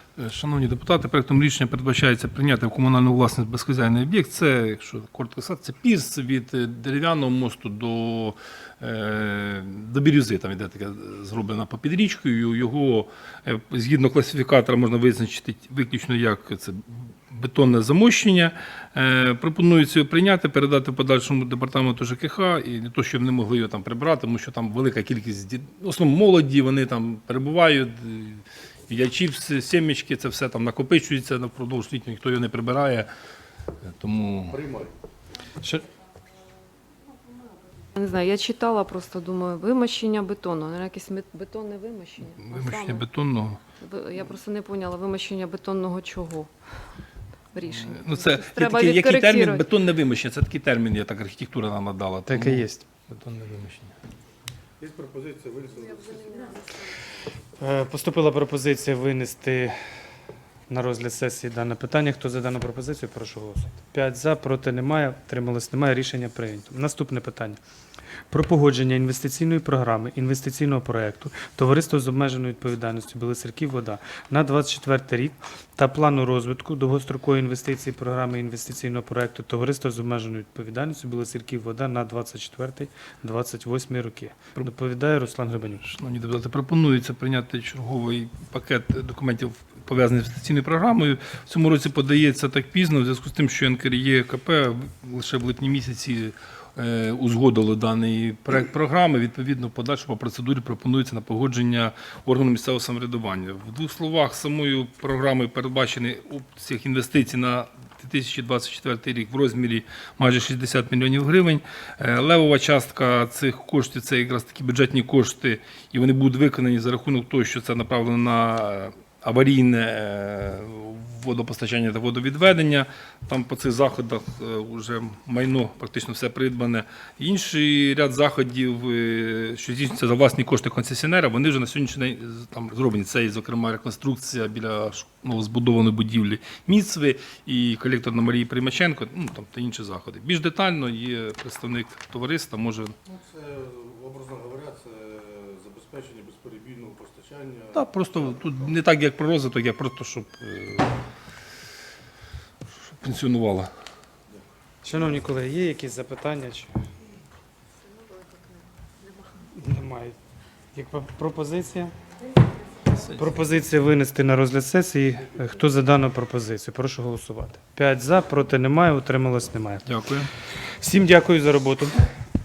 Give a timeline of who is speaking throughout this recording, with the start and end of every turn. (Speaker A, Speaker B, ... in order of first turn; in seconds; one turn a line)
Speaker A: 0.2-33.1
Speaker A: 33.8-34.6
Speaker B: 34.5-34.9
Speaker C: 38.0-43.0
Speaker A: 42.4-43.6
Speaker C: 43.8-46.5
Speaker C: 47.5-49.6
Speaker A: 47.7-53.9
Speaker D: 52.3-52.9
Speaker B: 54.8-56.5
Speaker D: 57.6-59.8
Speaker D: 60.7-67.6
Speaker D: 68.3-85.8
Speaker A: 85.8-142.9
Speaker B: 143.1-148.3
Speaker A: 147.7-150.9
Speaker A: 153.0-153.7
Speaker D: 154.8-156.7
Speaker D: 159.6-160.2
Speaker D: 160.7-161.9
Speaker D: 163.1-169.9
Speaker A: 169.9-170.3
Speaker D: 170.6-172.0